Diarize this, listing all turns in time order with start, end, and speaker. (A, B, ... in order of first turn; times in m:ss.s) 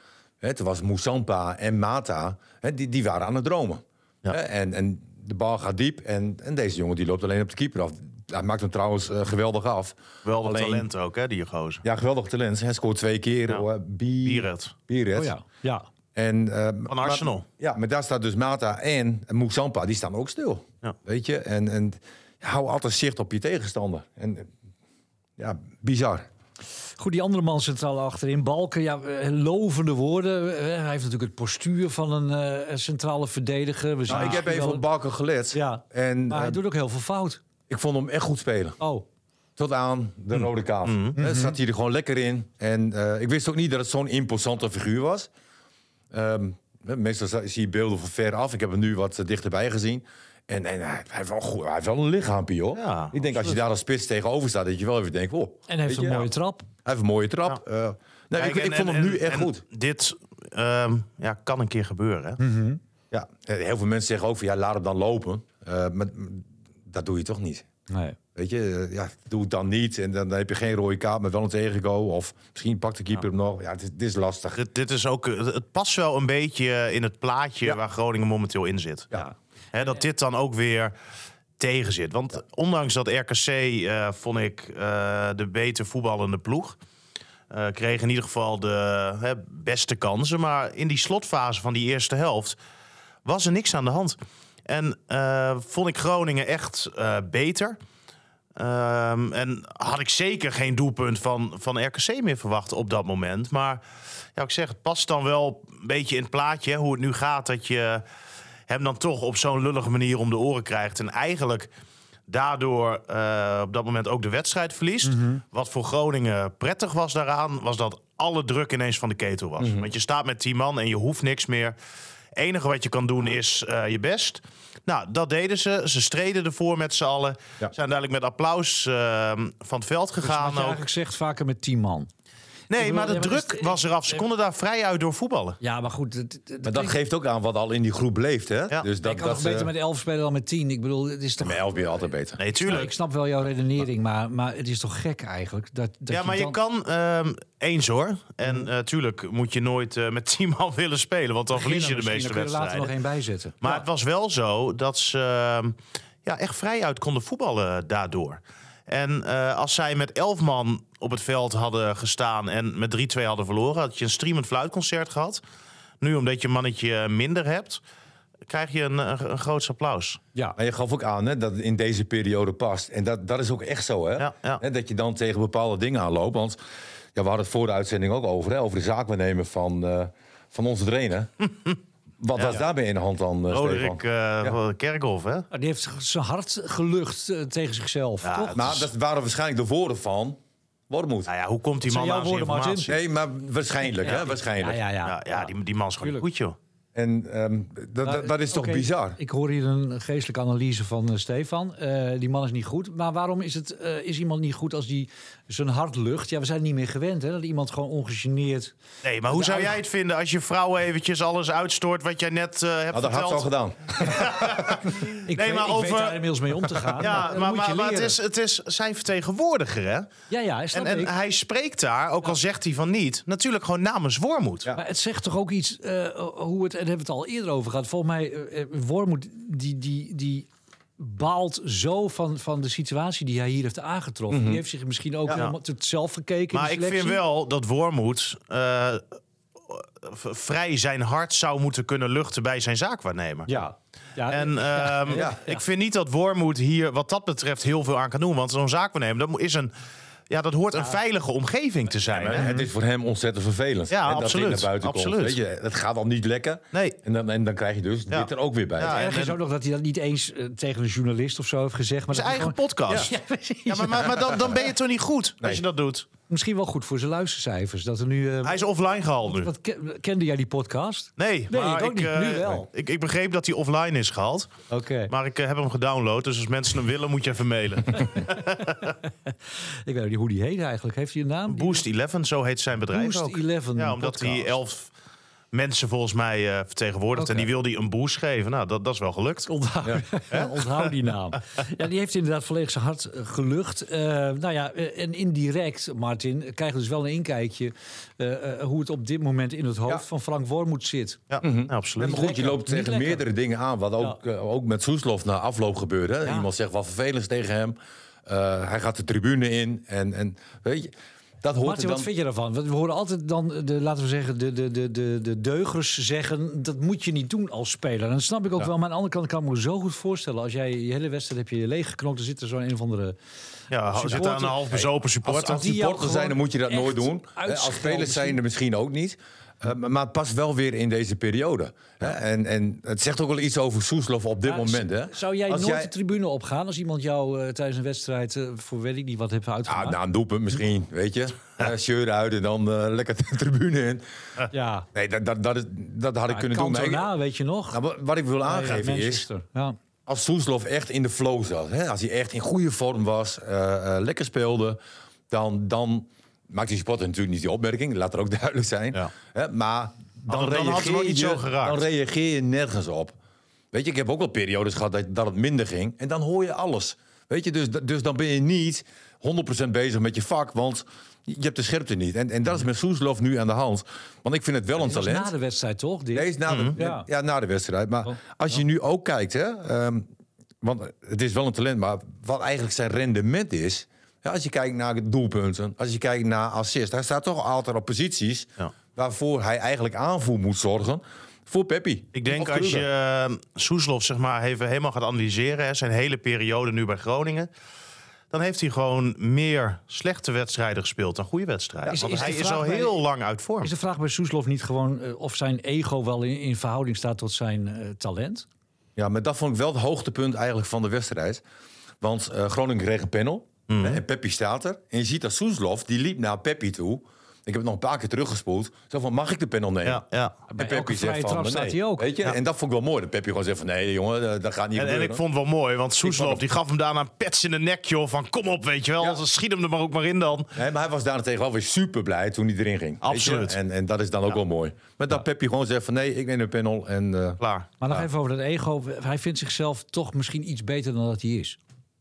0:00.4-0:10.9 A
0:10.2-0:11.8 B
0:11.8-0:15.3 A
0:14.2-0:14.8 B
0:15.2-0:15.9 C
0:16.2-0:24.5 A
0:16.9-0:17.5 B
0:25.4-0:26.3 A
0:27.0-0:34.8 C
0:34.1-0:36.6 A
0:35.5-0:37.4 C
0:37.7-0:38.8 A
0:38.8-0:39.1 C
0:39.6-0:45.3 A
0:40.3-0:41.2 B
0:41.2-0:41.6 C
0:46.1-0:56.3 A
0:52.8-0:53.1 B
0:55.7-0:56.7 C
0:56.8-0:59.6 A
0:58.4-1:02.4 B
1:02.4-1:02.8 C
1:03.1-1:07.7 A
1:07.9-1:08.2 C
1:08.4-1:14.6 A
1:14.5-1:19.1 B
1:19.7-1:20.9 B
1:21.6-1:26.8 B
1:27.5-1:32.6 B
1:33.2-1:37.8 B
1:38.6-1:43.8 B
1:44.4-1:48.0 B
1:48.7-1:51.7 B
1:52.3-2:01.8 B
1:55.0-1:55.4 C
1:59.6-1:59.9 A
2:02.4-2:10.8 B
2:10.2-2:12.1 C
2:12.7-2:15.6 B
2:12.8-2:14.2 C
2:15.6-2:17.0 C
2:16.6-2:19.7 A
2:19.0-2:21.7 C
2:21.4-2:22.4 A
2:22.4-2:22.9 B
2:22.6-2:26.6 C
2:26.1-2:32.9 B
2:31.5-2:33.8 C
2:33.6-2:45.4 B
2:46.0-2:47.8 B
2:48.5-2:50.2 B
2:50.6-2:56.6 A
2:54.2-2:54.6 B
2:57.2-3:01.3 A
3:02.2-3:04.6 A
3:02.4-3:02.6 B
3:03.5-3:05.5 B
3:05.5-3:08.9 C
3:08.2-3:08.9 B
3:08.5-3:11.3 A
3:11.3-3:13.0 B
3:11.8-3:13.0 C
3:12.9-3:14.8 A
3:14.0-3:15.5 C
3:14.1-3:14.3 B
3:15.0-3:16.6 B
3:17.0-3:19.2 A
3:18.0-3:28.8 C
3:29.0-3:36.2 B
3:29.3-3:29.8 C
3:32.9-3:34.8 A
3:34.9-3:38.2 C
3:37.0-3:40.1 B
3:40.3-3:41.1 C
3:40.7-3:44.7 B
3:44.8-3:57.2 C
3:54.3-3:54.6 A
3:55.3-3:55.6 B
3:56.5-4:03.5 B
4:03.5-4:05.6 C
4:04.3-4:09.7 B
4:05.1-4:05.4 A
4:10.3-4:12.4 B
4:12.1-4:19.0 A
4:12.4-4:12.7 C
4:13.9-4:15.4 B
4:18.1-4:19.4 B
4:18.8-4:24.5 C
4:22.1-4:23.1 B
4:23.7-4:26.1 B
4:26.3-4:28.6 C
4:28.4-4:29.5 B
4:29.3-4:32.7 C
4:31.2-4:34.5 B
4:34.7-4:35.1 C
4:35.1-4:38.7 B
4:37.9-4:41.8 C
4:41.5-4:44.9 B
4:42.9-4:44.6 C
4:45.5-4:49.5 B
4:47.2-4:47.5 C
4:49.5-5:01.2 C
4:50.3-4:50.9 B
5:01.3-5:02.1 B
5:01.4-5:12.1 A
5:02.0-5:03.2 C
5:06.2-5:06.5 C
5:11.6-5:23.2 C
5:23.7-5:25.6 B
5:23.8-5:24.6 C
5:24.1-5:35.9 A
5:25.4-5:28.4 C
5:34.4-5:40.0 C
5:39.7-5:44.0 A
5:44.5-5:44.9 C
5:44.9-5:47.1 A
5:46.3-5:47.8 C
5:47.7-5:49.3 A
5:48.4-5:49.8 C
5:50.1-6:03.2 A
6:00.3-6:01.8 B
6:03.7-6:15.3 A
6:14.8-6:17.1 C
6:16.1-6:20.1 A
6:16.5-6:16.8 B
6:20.6-6:32.9 A
6:32.2-6:37.5 B
6:38.3-6:43.7 B
6:41.9-6:42.9 C
6:43.6-6:48.5 C
6:49.0-6:51.4 A
6:52.0-7:00.0 A
6:53.7-6:54.0 B
6:59.8-7:00.4 B
7:00.5-7:02.2 C
7:00.5-7:05.2 A
7:04.8-7:10.5 B
7:06.0-7:06.4 A
7:10.6-7:17.4 A
7:13.0-7:13.6 B
7:17.4-7:17.7 B
7:17.8-7:21.6 C